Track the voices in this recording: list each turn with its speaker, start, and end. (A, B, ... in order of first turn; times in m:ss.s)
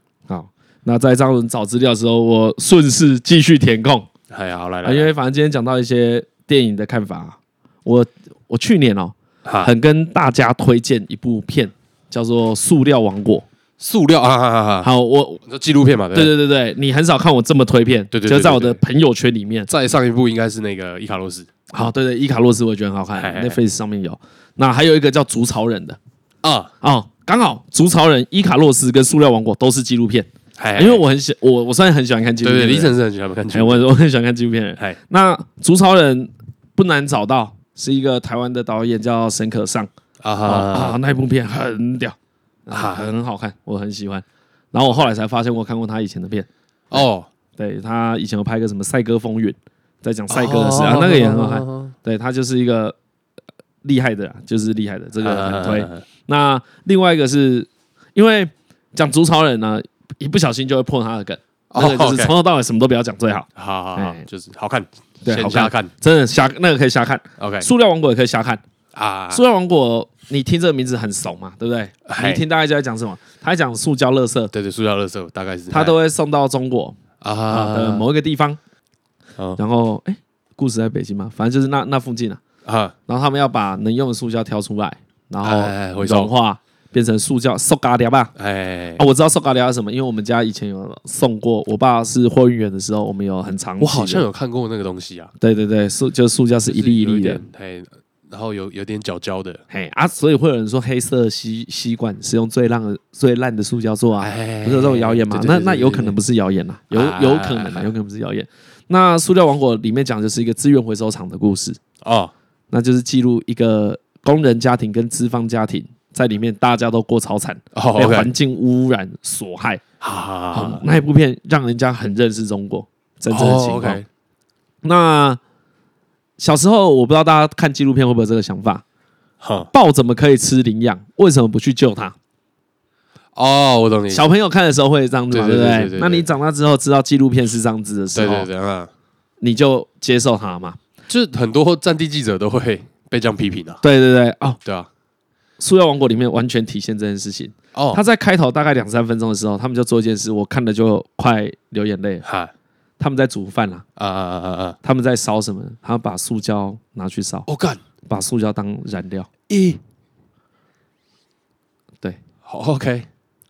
0:00.3-0:04.1 A
0:04.3-0:05.1 B
0:04.8-0:13.5 A
0:09.4-0:09.7 B
0:13.8-0:14.9 B
0:14.8-0:15.4 A
0:15.5-0:16.4 B
0:16.1-0:19.7 A
0:18.1-0:18.8 B
0:19.7-0:21.5 B
0:21.7-0:26.0 A
0:23.2-0:23.6 B
0:26.4-0:26.7 B
0:26.8-0:33.0 A
0:30.6-0:31.0 B
0:32.4-0:33.9 B
0:33.5-0:39.9 A
0:40.2-0:41.0 B
0:40.4-0:53.0 A
0:42.7-0:43.1 B
0:46.9-0:47.3 B
0:50.3-0:51.9 B
0:53.8-1:04.2 A
0:55.2-0:56.0 B
1:01.7-1:02.3 B
1:03.6-1:05.9 B
1:05.2-1:08.6 A
1:07.4-1:07.7 B
1:08.9-1:09.4 B
1:09.3-1:14.5 A
1:12.1-1:12.4 B
1:14.5-1:16.0 B
1:15.7-1:18.6 A
1:17.2-1:18.1 B
1:19.6-1:22.4 A
1:22.6-1:22.9 B
1:23.1-1:28.3 A
1:25.4-1:26.3 B
1:28.4-1:29.0 B
1:29.0-1:34.3 A
1:33.8-1:35.3 B
1:35.4-1:37.4 A
1:36.7-1:39.6 B
1:39.7-1:51.8 A
1:44.2-1:46.2 B
1:46.9-1:47.9 B
1:52.0-1:52.3 B
1:52.7-1:59.8 A
1:57.7-1:58.3 B
2:00.0-2:00.8 B
2:00.5-2:04.0 A
2:03.3-2:04.1 B
2:04.8-2:05.4 A
2:06.4-2:08.8 A
2:09.4-2:09.7 B
2:09.7-2:12.2 A
2:13.4-2:14.3 B
2:14.1-2:18.5 A
2:15.3-2:16.3 B
2:18.1-2:18.9 B
2:19.4-2:20.8 A
2:21.1-2:23.8 B
2:23.8-2:24.6 A
2:25.6-2:32.2 A
2:27.7-2:28.0 B
2:32.2-2:32.5 B
2:33.0-2:33.8 A
2:34.0-2:34.8 B
2:34.8-2:37.5 A
2:37.5-2:37.8 B
2:38.0-2:39.3 A
2:39.5-2:39.8 B
2:42.4-2:43.1 B